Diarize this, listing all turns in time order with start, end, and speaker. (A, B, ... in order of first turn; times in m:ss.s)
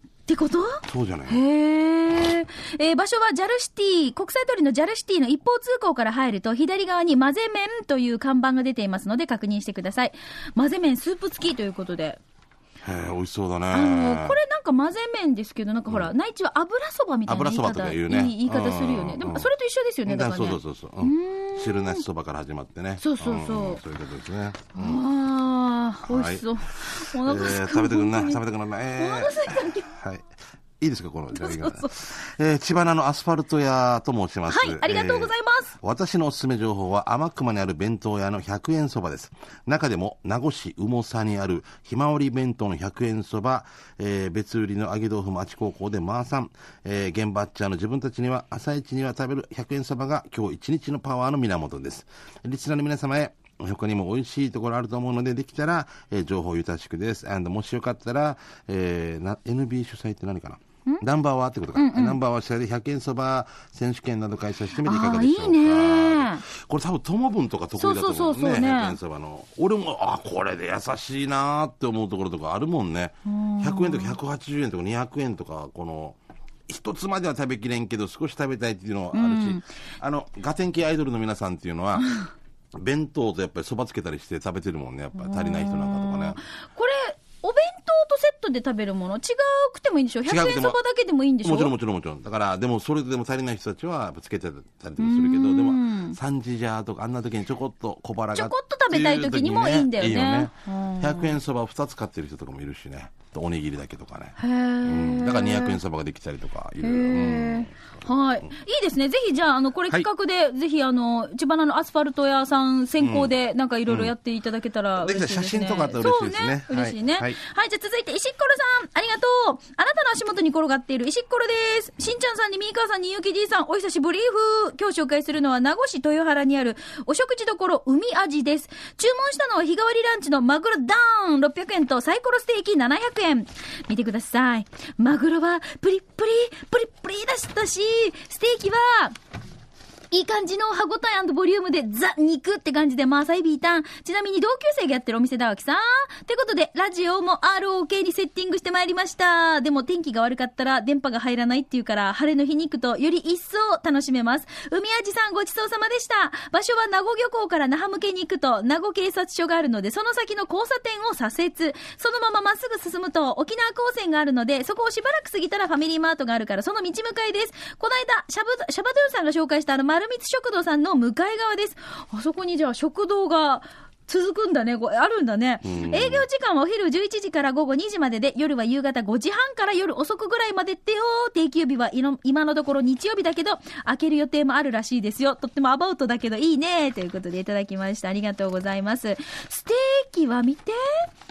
0:00.3-0:12.2 A
0:00.8-0:01.4 B
0:12.8-0:14.4 B
0:13.7-0:22.0 A
0:17.2-0:19.5 B
0:20.0-0:25.0 B
0:23.0-0:23.8 A
0:24.7-0:28.4 A
0:26.1-0:30.3 B
0:29.0-0:29.9 A
0:30.8-1:22.1 B
0:31.3-0:32.1 A
0:34.5-0:35.7 A
1:01.8-1:02.2 A
1:04.8-1:06.4 A
1:07.8-1:09.0 A
1:13.2-1:14.2 A
1:19.1-1:19.6 A
1:22.7-1:26.4 B
1:25.2-1:31.7 A
1:30.2-1:30.8 B
1:31.4-1:47.8 B
1:35.0-1:36.2 A
1:38.3-1:41.4 A
1:44.4-1:45.8 A
1:46.8-2:19.1 A
1:53.0-1:53.3 B
1:53.9-1:54.1 B
1:55.0-1:57.4 B
2:20.1-3:11.1 A
2:55.6-2:56.2 B